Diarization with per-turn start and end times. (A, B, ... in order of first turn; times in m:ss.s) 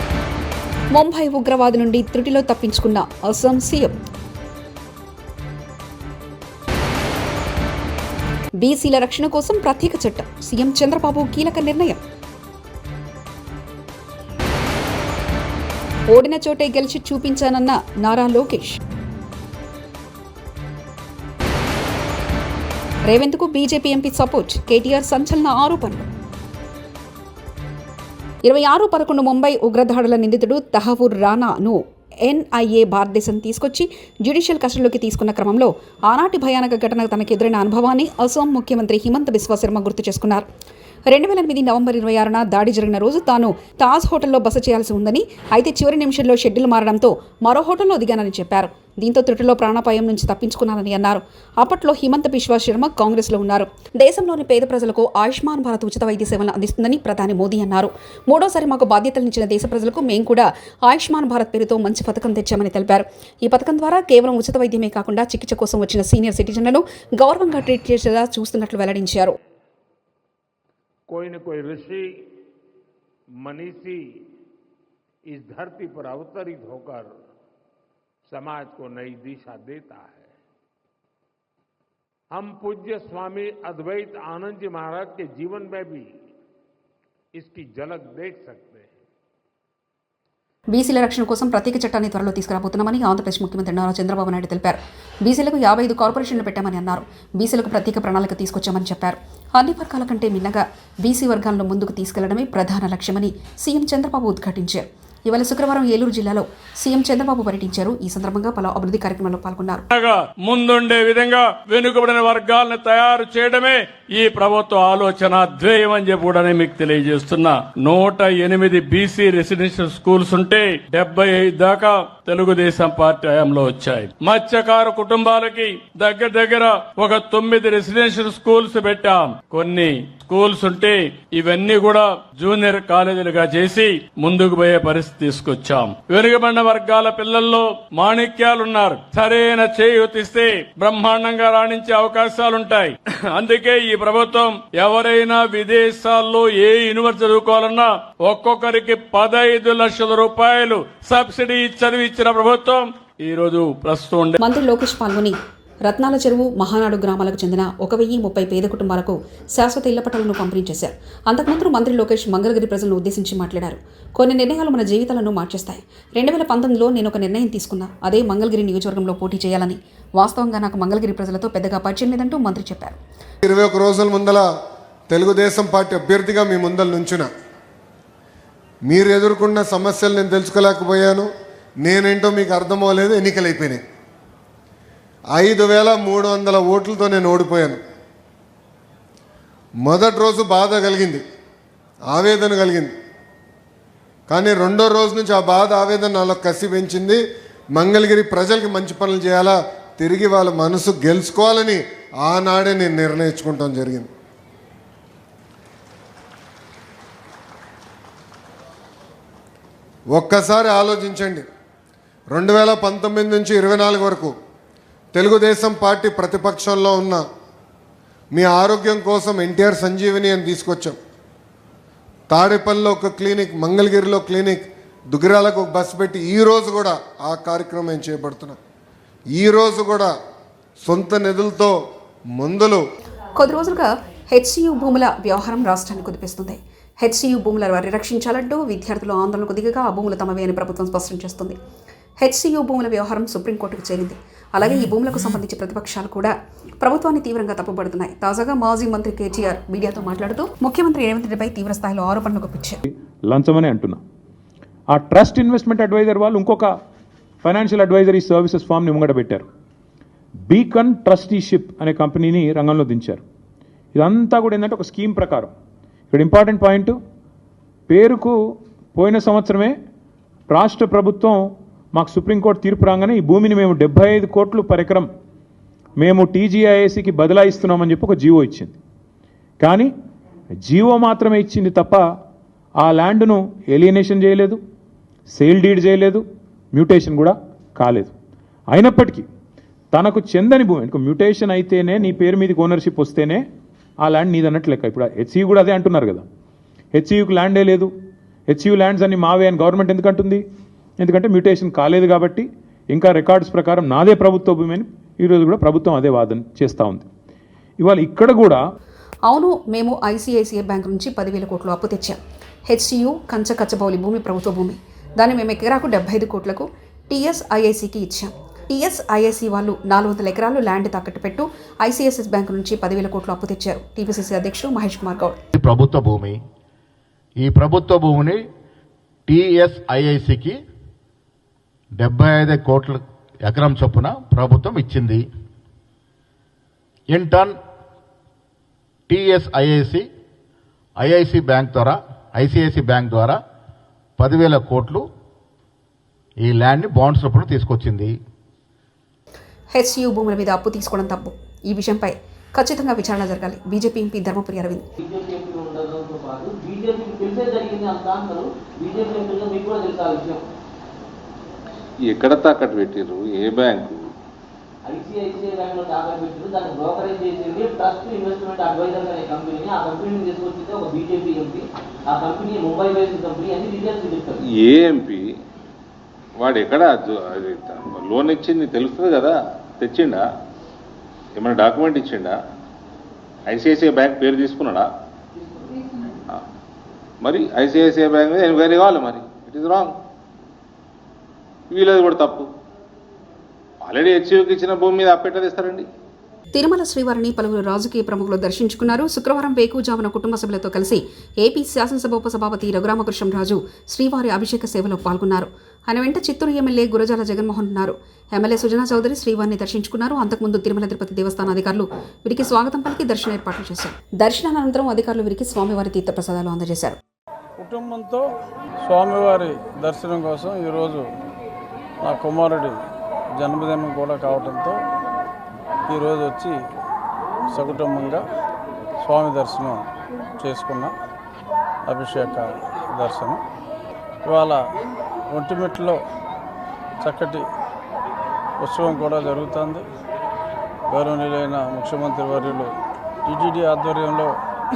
0:01.0-0:04.0 A
0:08.6-0:12.0 A
0:16.1-0:18.8 A
0:23.1-0:26.1 A
0:28.4-0:40.4 A
0:41.1-1:09.4 A
1:11.1-1:12.1 B
1:13.4-1:14.0 B
1:15.3-1:17.1 B
1:18.3-1:20.3 B
1:22.3-1:26.1 B
1:27.4-1:28.9 B
1:30.7-1:49.8 A
1:49.9-2:34.4 C
2:34.4-2:35.4 A
2:35.9-2:53.0 A
2:53.4-2:54.5 D
2:55.1-2:57.3 D
2:58.9-3:01.3 D
3:01.8-3:03.8 D
3:05.4-3:07.8 D
3:09.9-3:11.2 D
3:12.1-3:12.9 D
3:14.3-3:17.2 D
3:17.8-3:24.1 D
3:30.1-3:31.5 D
3:32.3-3:34.3 D
3:35.1-3:37.2 D
3:38.3-3:41.0 D
3:42.3-3:48.6 D
3:49.4-3:50.1 D
3:50.8-3:51.8 D
3:52.4-3:52.8 D
3:53.4-4:01.6 A
4:02.2-4:12.8 A
4:13.3-4:14.0 E
4:14.9-4:16.7 E
4:17.4-4:19.4 E
4:20.5-4:23.2 E
4:24.0-4:25.5 E
4:26.1-4:27.0 E
4:27.9-4:28.3 E
4:29.0-4:29.8 E
4:30.5-4:31.4 E
4:32.0-4:35.1 E
4:36.0-4:38.8 E
4:39.6-4:39.9 E
4:40.7-4:42.0 E
4:42.8-4:44.6 E
4:45.3-4:46.2 E
4:46.8-4:48.1 E
4:48.7-4:49.2 E
4:49.9-4:53.4 E
4:54.0-4:56.2 E
4:56.9-4:57.9 E
4:58.5-5:00.4 E
5:01.0-5:07.0 E
5:07.8-5:08.6 E
5:09.3-5:25.4 A
5:25.6-5:26.4 F
5:27.4-5:28.4 F
5:29.3-5:30.6 F
5:32.0-5:35.3 F
5:37.1-5:37.6 F
5:39.1-5:40.1 F
5:41.0-5:43.4 F
5:44.2-5:45.0 F
5:46.4-5:48.2 F
5:49.8-5:54.8 A
5:55.1-6:00.4 G
6:02.0-6:04.1 H
6:04.9-6:14.4 G
6:14.4-6:15.3 H
6:16.4-6:20.2 H
6:21.4-6:22.4 H
6:23.5-6:24.9 H
6:27.2-6:29.9 H
6:31.7-6:32.5 H
6:33.8-6:35.9 H
6:36.6-6:57.0 A
6:57.6-6:58.2 I
6:58.9-7:01.0 I
7:02.1-7:02.7 I
7:03.4-7:04.7 I
7:05.9-7:06.6 I
7:07.5-7:08.2 I
7:09.1-7:09.8 I
7:10.4-7:10.9 I
7:11.9-7:13.4 I
7:14.3-7:14.6 I
7:15.4-7:16.0 I
7:17.1-7:17.4 I
7:18.7-7:19.8 I
7:20.9-7:22.7 I
7:23.3-7:24.3 I